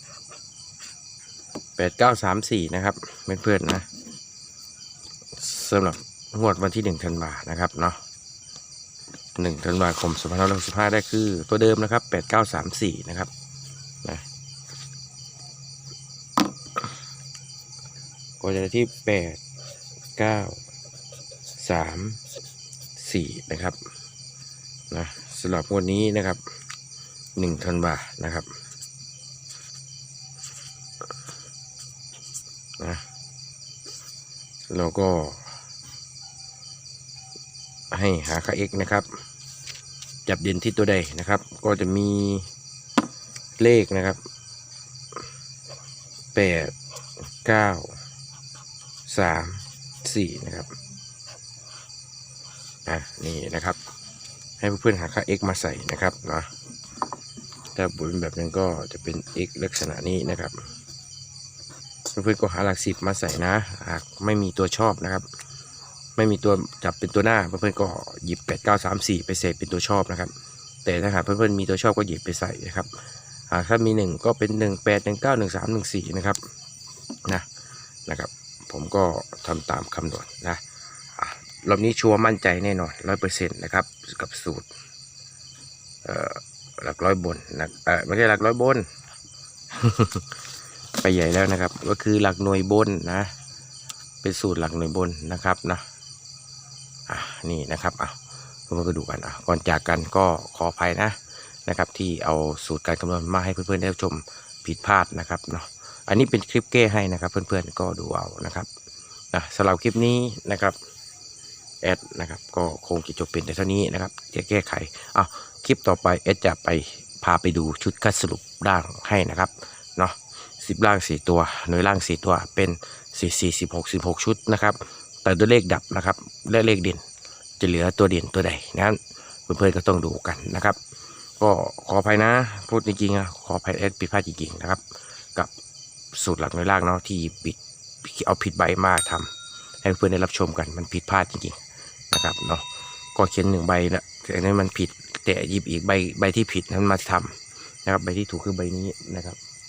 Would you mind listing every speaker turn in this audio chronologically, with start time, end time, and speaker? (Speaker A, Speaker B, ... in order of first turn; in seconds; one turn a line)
Speaker A: 1.8-3.9
Speaker A: 5.4-8.0
Speaker A: 9.4-13.3
Speaker A: 18.4-19.4
Speaker A: 20.2-20.6
Speaker A: 21.6-22.2
Speaker A: 23.0-23.8
Speaker A: 24.9-26.4
Speaker A: 27.4-28.5
Speaker A: 32.8-33.0
Speaker A: 34.7-35.5
Speaker A: 37.9-39.2
Speaker A: 40.3-42.5
Speaker A: 43.6-44.2
Speaker A: 46.4-46.8
Speaker A: 47.3-48.0
Speaker A: 49.1-50.8
Speaker A: 52.9-53.8
Speaker A: 54.6-56.5
Speaker A: 57.8-60.6
Speaker A: 62.1-65.3
Speaker A: 66.2-70.3
Speaker A: 70.8-76.4
Speaker A: 78.1-80.6
Speaker A: 81.2-84.7
Speaker A: 86.0-88.9
Speaker A: 89.7-90.4
Speaker A: 91.0-93.3
Speaker A: 94.2-95.9
Speaker A: 97.1-108.7
Speaker A: 109.3-110.8
Speaker A: 111.8-127.0
Speaker A: 127.6-130.8
Speaker A: 131.4-134.8
Speaker A: 136.1-141.6
Speaker A: 142.1-149.4